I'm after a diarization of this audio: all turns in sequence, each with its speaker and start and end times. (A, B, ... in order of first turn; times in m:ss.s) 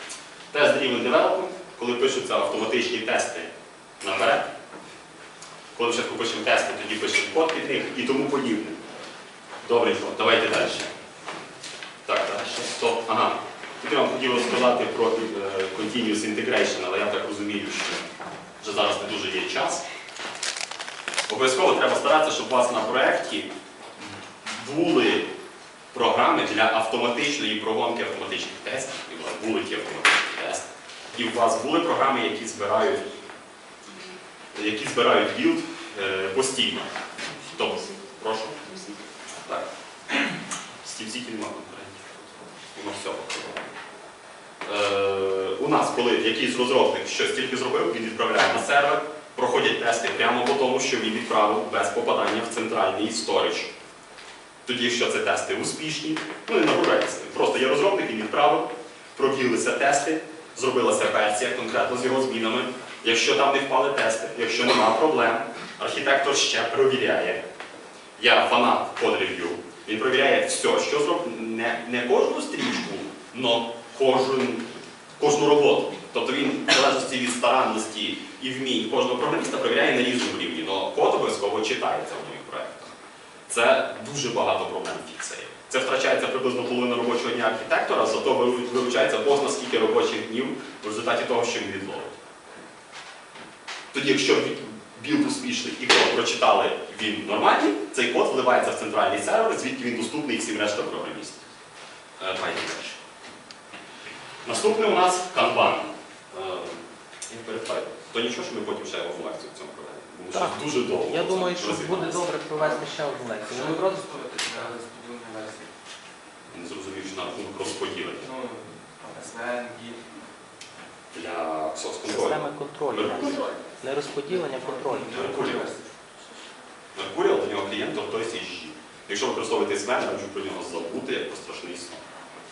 0:00.5-0:04.5 A
0:05.8-0:08.8 A
0:09.6-0:10.9 A
0:12.1-0:18.1 A
0:18.6-0:19.8 A
0:21.3-0:23.6 A
0:24.4-0:25.3 A
0:25.9-0:33.1 A
0:34.5-0:39.7 A
0:40.8-0:43.7 A
0:44.6-0:53.7 A
0:54.6-1:07.4 A
1:08.2-1:14.7 A
1:15.2-1:22.9 A
1:23.5-1:32.2 A
1:33.9-1:41.4 A
1:42.2-1:43.0 A
1:44.4-1:52.3 A
1:50.3-1:54.1 B
1:52.6-1:55.7 C
1:56.5-1:58.2 A
1:58.2-2:00.1 C
2:01.1-2:03.5 A
2:02.0-2:05.5 B
2:04.3-2:06.0 C
2:05.1-2:05.6 A
2:06.9-2:12.0 A